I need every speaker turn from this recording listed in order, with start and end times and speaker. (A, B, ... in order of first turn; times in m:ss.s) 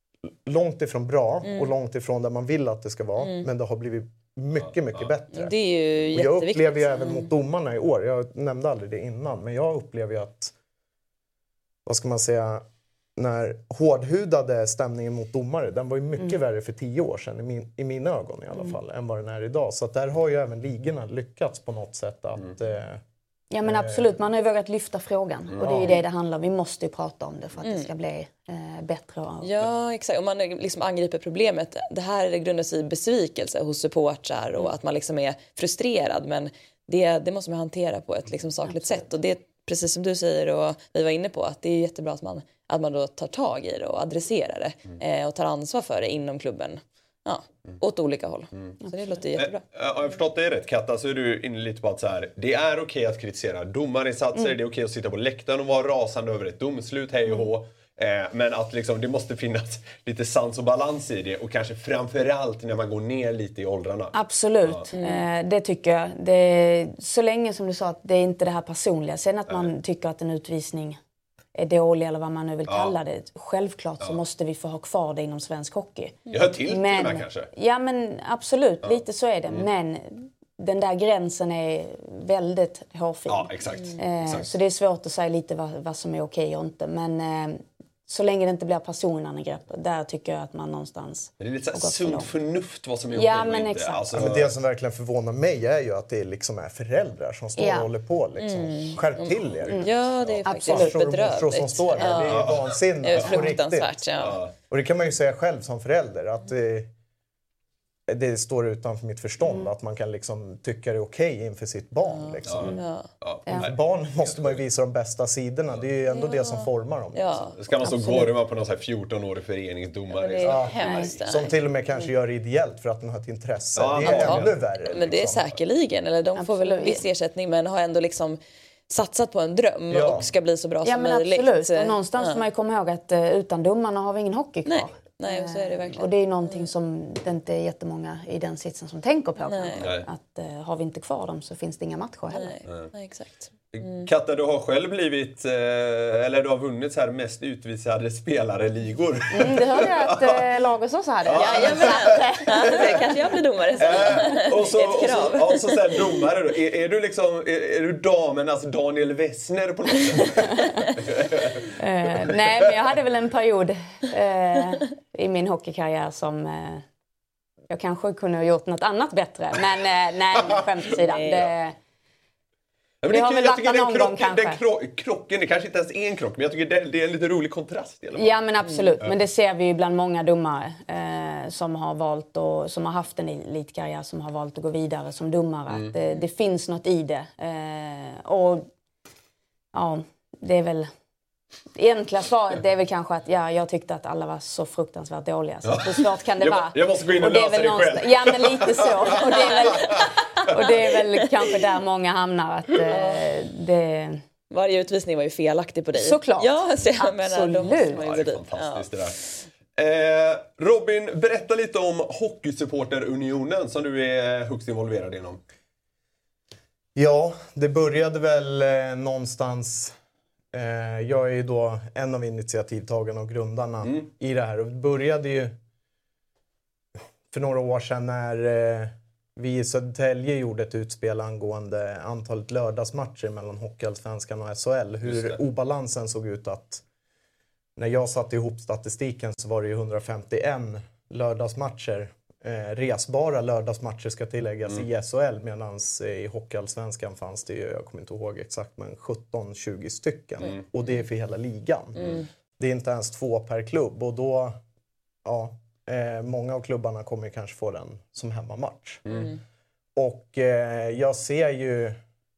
0:00.4-0:10.5 A
0:03.2-0:03.5 B
0:05.3-0:07.3 B
0:11.8-0:12.6 A
0:13.2-0:23.0 A
0:23.5-0:29.5 C
0:23.6-0:24.1 A
0:25.6-0:26.0 A
0:27.6-0:27.9 B
0:29.4-0:49.6 B
0:38.7-0:39.0 C
0:49.4-1:04.1 D
1:04.1-1:11.0 C
1:05.0-1:05.2 B
1:11.5-1:32.3 C
1:12.7-1:12.9 D
1:16.3-1:17.5 D
1:23.3-1:24.5 D
1:31.4-1:34.5 D
1:33.1-1:34.3 C
1:34.1-1:39.9 A
1:37.6-1:37.9 C
1:38.4-1:44.4 B
1:39.6-1:40.4 D
1:40.4-1:41.0 C
1:40.6-1:44.1 A
1:42.0-1:42.3 C
1:42.3-1:43.3 D
1:44.2-1:44.5 D
1:44.7-1:46.9 A
1:48.1-1:52.8 A
1:52.0-1:53.1 B
1:52.4-1:54.6 D
1:53.5-1:57.5 A
1:56.1-1:57.9 B
1:57.6-2:00.8 D
1:57.8-1:58.3 C
2:00.1-2:01.5 B
2:00.4-2:05.5 A
2:00.8-2:01.1 C
2:03.8-2:04.6 D
2:04.0-2:08.4 B
2:06.4-2:07.0 C
2:08.9-2:12.4 B
2:09.9-2:10.3 A
2:10.8-2:22.6 C
2:14.6-2:16.7 B
2:19.4-2:19.9 B
2:19.8-2:20.0 D
2:22.3-2:24.1 B
2:23.7-2:30.4 D
2:29.3-2:33.1 C
2:31.3-2:33.0 D
2:31.3-2:36.0 B
2:33.8-2:41.7 D
2:33.8-2:34.5 C
2:41.8-2:46.8 C
2:47.7-2:51.8 C
2:51.0-2:51.5 B
2:53.0-2:58.4 D
2:53.1-2:54.6 C
2:58.2-3:08.7 C
3:09.7-3:10.9 C
3:11.7-3:24.2 C
3:15.7-3:20.1 D
3:22.9-3:23.2 B
3:24.5-3:28.9 B
3:25.9-3:28.0 C
3:27.9-3:29.2 D
3:29.8-3:35.4 D
3:36.9-3:39.9 A
3:40.5-3:45.5 A
3:47.3-3:56.8 A
3:55.0-3:55.4 D
3:57.8-4:14.6 A
4:12.0-4:12.2 D
4:15.2-4:19.2 A
4:19.1-4:19.4 D
4:20.0-4:22.0 A